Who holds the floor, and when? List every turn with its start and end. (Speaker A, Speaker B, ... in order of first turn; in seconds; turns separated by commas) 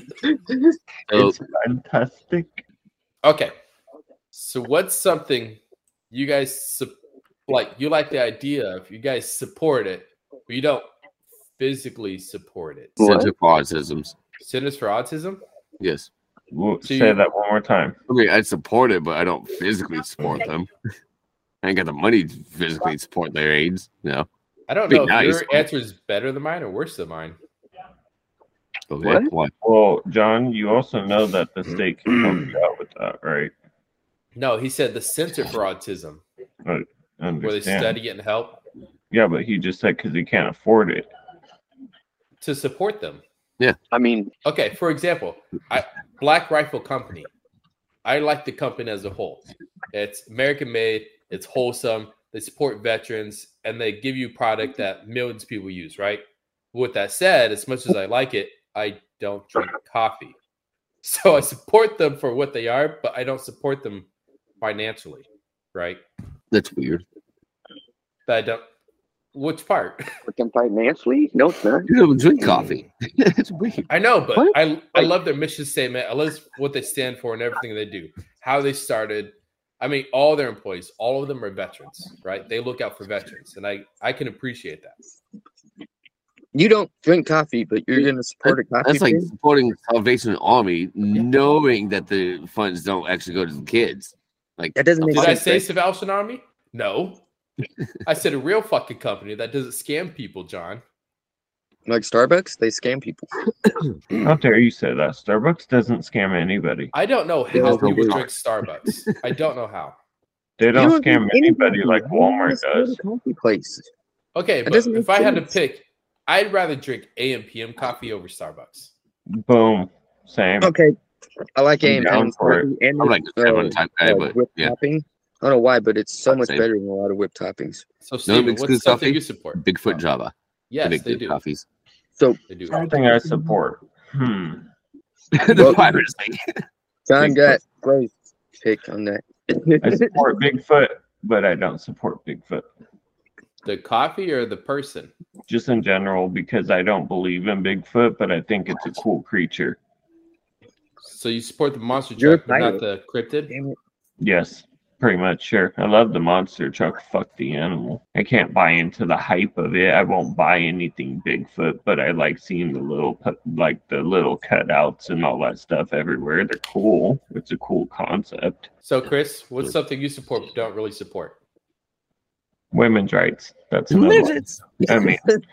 Speaker A: 1.1-1.4, Speaker B: 1.1-2.6, Speaker C: 3.2-3.5, Speaker C: 4.3-7.0, Speaker C: 7.5-10.9, Speaker C: 11.6-13.0, Speaker D: 13.0-13.3, Speaker A: 13.0-14.2, Speaker C: 14.4-15.4, Speaker A: 15.8-16.1, Speaker B: 16.5-17.9, Speaker C: 16.8-17.2, Speaker A: 18.1-20.7, Speaker A: 21.6-24.3, Speaker C: 24.7-27.4, Speaker A: 24.9-25.6, Speaker A: 28.9-29.5, Speaker D: 29.0-29.3, Speaker B: 29.6-33.5, Speaker C: 34.3-36.2, Speaker B: 36.6-38.0, Speaker C: 37.4-38.6, Speaker B: 39.1-41.1, Speaker C: 42.4-43.2, Speaker D: 43.9-44.3, Speaker C: 44.4-47.3, Speaker C: 48.0-60.4, Speaker C: 61.0-64.1, Speaker C: 64.6-66.0, Speaker A: 66.5-67.0, Speaker C: 68.3-68.6, Speaker C: 69.3-70.0, Speaker D: 70.2-71.9, Speaker A: 71.9-74.5, Speaker C: 73.9-84.9, Speaker D: 86.5-89.3, Speaker A: 88.0-95.4, Speaker D: 94.8-95.7, Speaker C: 95.1-97.2, Speaker C: 98.0-100.8, Speaker D: 101.8-103.4, Speaker B: 104.2-106.9, Speaker C: 106.9-110.0, Speaker D: 107.5-108.2, Speaker A: 107.5-108.3, Speaker B: 110.6-113.0, Speaker D: 110.7-113.8, Speaker C: 114.3-118.9, Speaker D: 114.7-115.5, Speaker B: 119.3-120.8, Speaker D: 120.6-120.9, Speaker D: 121.5-127.8, Speaker B: 121.8-122.7, Speaker A: 123.0-124.8, Speaker A: 126.2-126.7, Speaker C: 128.0-130.0, Speaker A: 128.2-131.6, Speaker C: 130.7-131.4, Speaker C: 132.5-132.9, Speaker B: 132.7-134.7, Speaker A: 135.3-136.4, Speaker D: 135.5-135.8, Speaker D: 137.1-140.2, Speaker A: 137.2-137.6, Speaker B: 139.8-142.6, Speaker C: 143.6-145.1, Speaker B: 145.5-149.8, Speaker C: 151.0-153.5, Speaker D: 152.2-152.8, Speaker D: 153.5-153.8, Speaker B: 154.2-168.7, Speaker C: 168.8-171.4, Speaker A: 169.0-169.7, Speaker B: 172.7-175.2, Speaker D: 173.9-175.4, Speaker A: 174.1-174.4